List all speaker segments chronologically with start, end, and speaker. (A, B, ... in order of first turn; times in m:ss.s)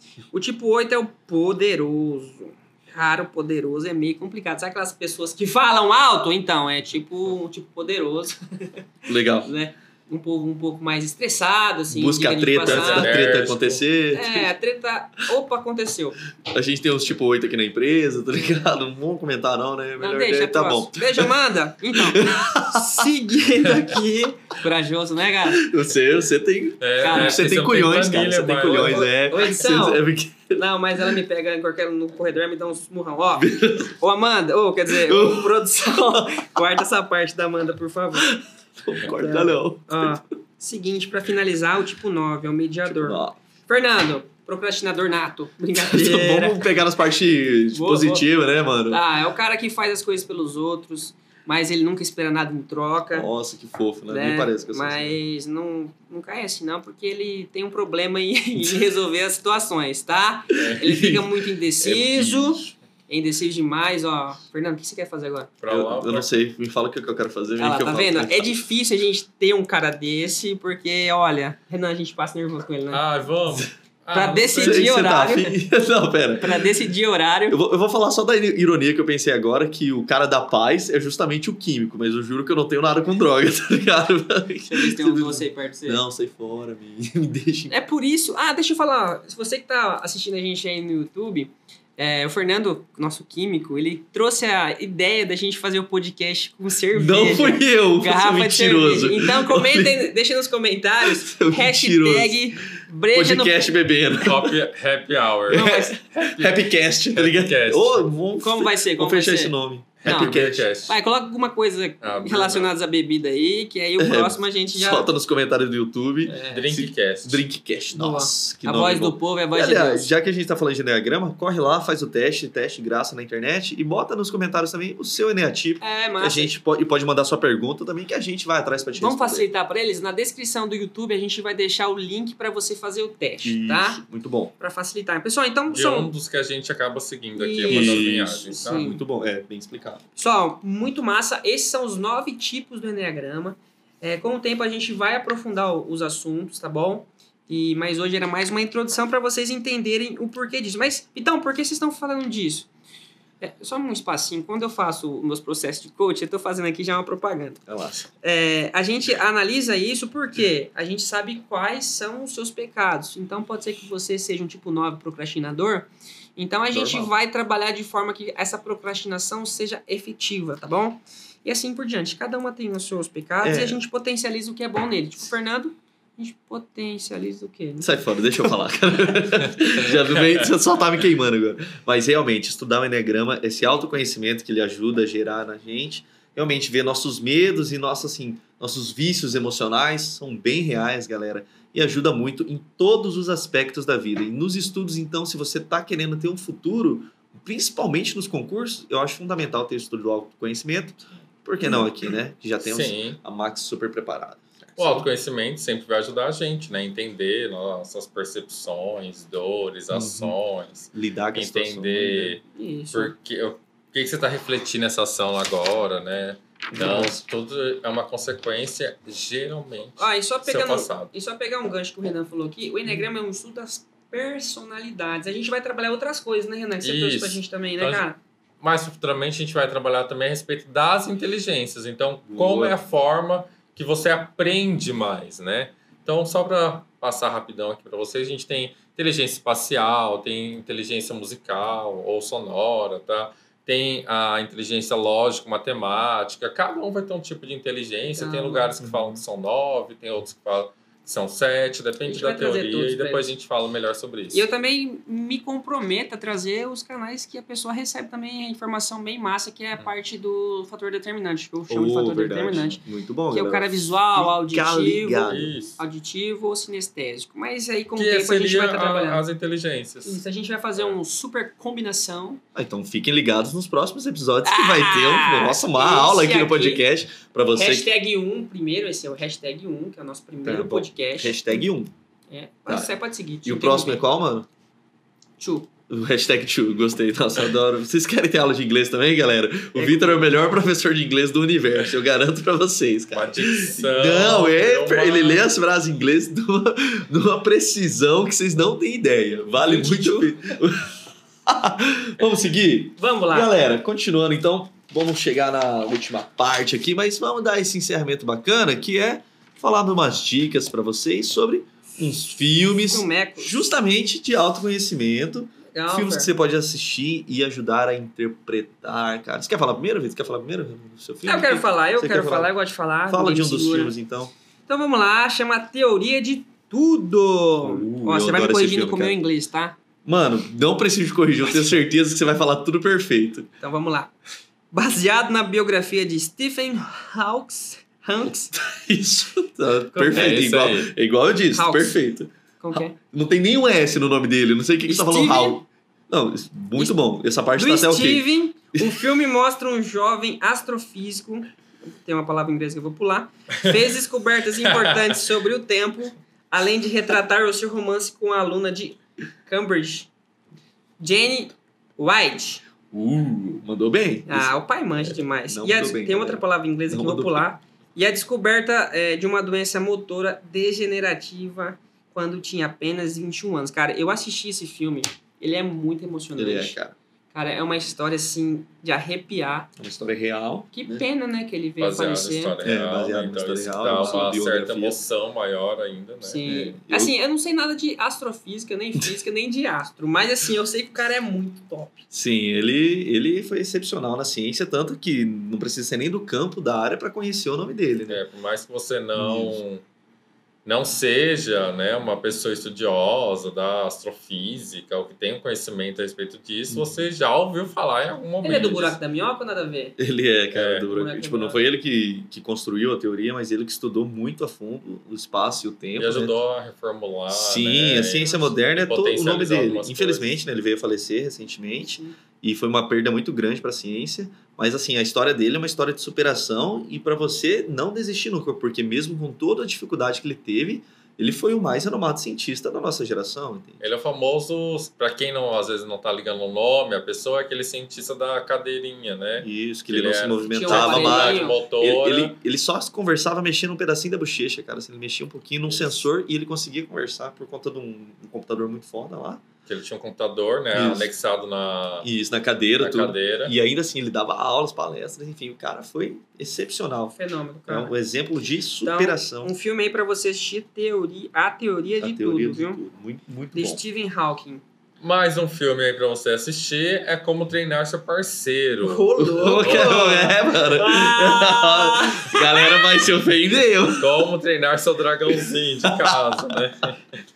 0:00.3-0:13.1 A
0:09.1-0:09.5 B
0:11.9-0:14.5 B
0:12.6-0:13.8 C
0:14.1-0:16.2 A
0:16.4-0:21.3 B
0:20.0-0:25.7 A
0:21.9-0:23.1 B
0:25.5-0:30.6 B
0:26.8-0:29.1 C
0:27.0-0:27.4 A
0:28.7-0:30.0 A
0:30.6-0:38.3 A
0:33.4-0:33.9 B
0:34.9-0:36.8 B
0:38.2-0:40.2 B
0:39.1-0:46.6 A
0:42.9-0:43.4 B
0:45.8-0:49.0 B
0:47.7-0:48.2 A
0:48.9-0:53.3 A
0:53.1-0:55.2 B
0:54.1-1:05.5 A
1:00.5-1:02.7 B
1:05.6-1:06.3 C
1:05.7-1:08.6 B
1:07.6-1:13.0 A
1:12.9-1:14.9 C
1:14.1-1:15.6 A
1:14.6-1:16.7 B
1:16.4-1:17.6 A
1:17.5-1:27.7 B
1:24.7-1:26.0 A
1:27.7-1:43.6 A
1:36.9-1:40.1 B
1:41.0-1:42.4 B
1:43.1-1:44.6 B
1:44.2-1:45.6 C
1:45.5-1:50.7 B
1:45.5-1:46.0 A
1:47.1-1:48.1 C
1:48.4-1:55.1 A
1:50.0-1:50.9 C
1:52.0-1:52.7 C
1:54.0-2:09.4 B
1:56.2-1:56.8 A
1:56.5-1:57.4 C
1:57.9-2:00.1 A
2:05.8-2:06.5 A
2:09.0-2:14.0 A
2:13.4-2:14.5 B
2:14.6-2:16.1 A
2:15.7-2:18.8 C
2:17.4-2:19.0 A
2:17.7-2:20.0 B
2:20.2-2:32.7 A
2:33.4-2:37.6 A
2:37.7-2:38.0 B
2:38.2-2:57.9 A
2:46.7-2:47.1 B
2:53.4-2:53.8 B
2:57.8-3:25.0 B
3:00.1-3:00.5 C
3:22.6-3:23.2 C
3:24.8-3:32.4 C
3:29.9-3:30.4 B
3:30.9-3:32.4 B
3:32.5-3:33.1 A
3:32.9-3:41.1 C
3:36.7-3:37.2 B
3:40.0-3:48.2 A
3:46.8-3:48.0 C
3:48.6-4:14.5 C
3:52.3-3:52.8 B
4:08.1-4:08.7 A
4:08.8-4:09.2 B
4:12.0-4:13.3 A
4:14.3-4:29.2 A
4:21.7-4:25.5 B
4:25.3-4:25.8 C
4:28.0-4:30.2 C
4:30.0-4:32.4 A
4:32.5-4:37.9 B
4:34.4-4:36.8 A
4:37.6-4:41.4 A
4:40.4-4:41.9 B
4:42.3-4:44.0 A
4:42.7-4:42.9 B
4:43.4-4:44.5 B
4:45.4-4:45.7 A
4:45.9-5:22.5 B
4:49.7-4:50.3 A
4:53.1-4:55.4 C
4:59.6-5:00.3 A
5:03.0-5:03.5 A
5:12.7-5:13.7 A
5:15.7-5:16.3 A
5:21.2-5:23.9 A
5:23.1-5:24.3 B
5:24.7-5:29.8 A
5:27.6-5:29.1 B
5:30.0-5:33.5 B
5:33.6-5:34.1 A
5:34.7-5:38.5 A
5:38.5-5:49.1 B
5:39.9-5:40.4 A
5:40.1-5:40.9 C
5:41.5-5:41.9 A
5:42.6-5:43.0 A
5:44.8-5:45.6 A
5:47.5-6:00.1 A
5:54.7-5:55.2 C
6:01.0-6:02.6 A
6:02.9-6:07.5 B
6:04.3-6:16.8 A
6:16.4-6:17.0 B
6:17.3-6:19.7 A
6:19.8-6:21.0 B
6:20.7-6:22.6 A
6:21.8-6:26.5 C
6:22.6-6:25.0 B
6:24.0-6:24.4 A
6:26.2-6:32.0 A
6:26.4-6:27.1 B
6:32.1-6:38.2 B
6:38.1-6:39.8 C
6:39.2-6:39.6 B
6:40.6-6:49.0 C
6:46.7-6:47.1 B
6:48.4-6:50.0 A
6:50.0-6:56.3 B
6:50.5-6:50.9 C
6:50.9-6:51.6 A
6:56.0-7:00.3 C
6:57.3-7:13.8 B
6:58.2-6:58.5 A
7:01.8-7:02.2 A
7:13.8-7:22.4 C
7:19.4-7:29.4 B
7:20.5-7:21.6 A
7:25.7-7:26.0 C
7:29.7-7:32.1 C
7:30.7-7:31.1 B
7:32.0-7:37.1 B
7:32.8-7:33.5 C
7:37.2-7:37.9 A
7:37.7-7:39.5 B
7:38.8-7:42.8 A
7:42.0-7:43.8 B
7:43.5-7:44.6 A
7:45.0-7:50.1 C
7:48.8-7:53.0 A
7:49.2-7:54.3 B
7:54.0-7:57.0 C
7:55.3-7:56.6 B